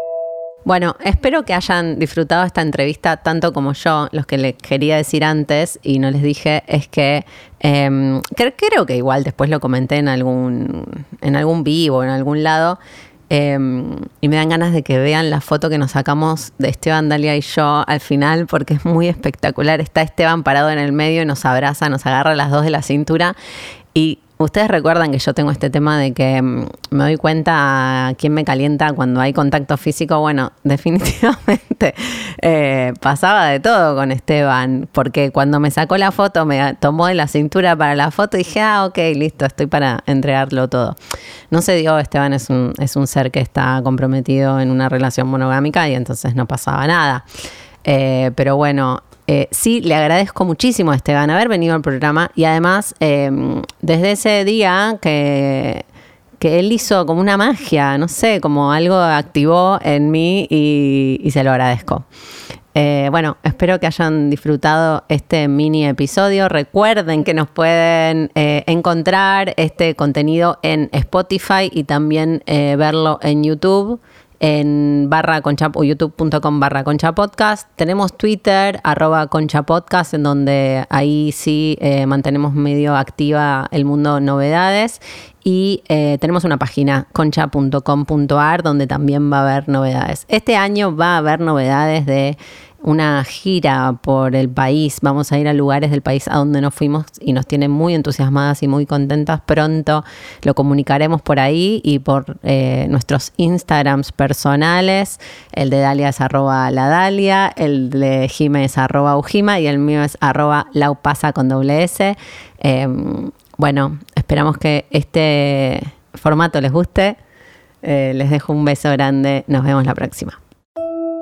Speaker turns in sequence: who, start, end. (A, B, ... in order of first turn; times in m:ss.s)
0:00.6-0:12.8 A
0:13.3-0:23.4 A
0:23.9-0:41.0 A
0:41.5-0:47.2 A
0:47.8-0:55.8 A
0:56.4-1:02.0 A
1:02.7-1:57.2 A
1:57.8-2:00.4 A